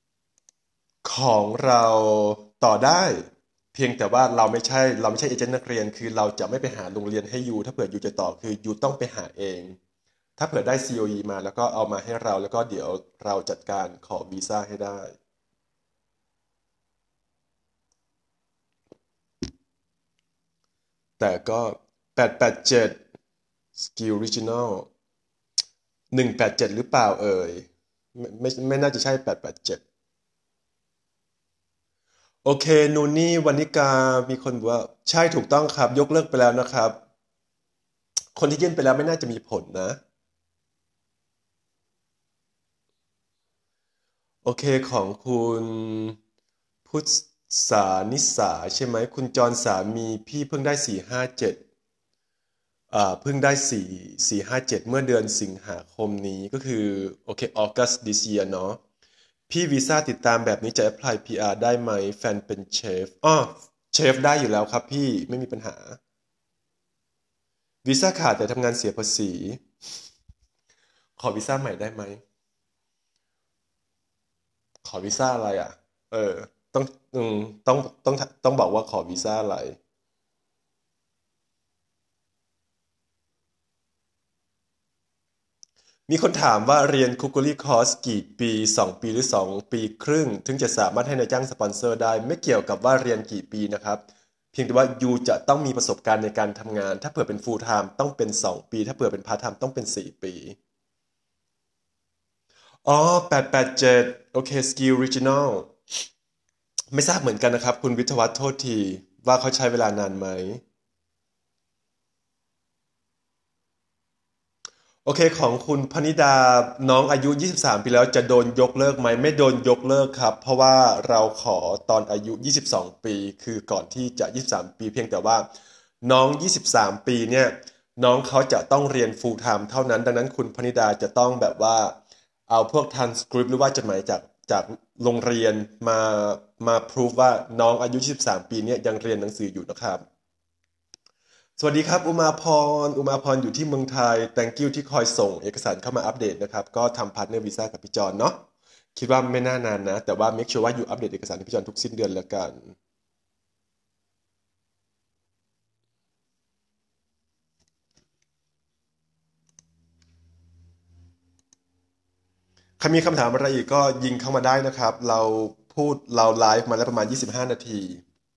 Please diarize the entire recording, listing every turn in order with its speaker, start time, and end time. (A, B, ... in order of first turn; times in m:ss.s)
0:01.0-0:09.8 A
0:10.4-0:15.2 A
0:21.2-0:23.0 A
0:23.8-0:24.9 A
0:26.1-0:29.8 A
0:32.4-0:37.0 A
0:38.4-0:40.0 A
0:44.4-0:46.2 A
0:46.9-0:51.6 A
0:52.9-0:58.8 A
0:59.5-1:06.0 A
1:07.8-1:09.6 A
1:11.2-1:12.2 A
1:14.8-1:19.8 A
1:26.1-1:40.6 A
1:42.8-1:45.7 A
1:46.9-1:50.6 A
1:55.0-2:05.5 A
2:06.0-2:12.0 A
2:12.5-2:20.0 A
2:21.6-2:32.8 A
2:42.8-2:48.0 A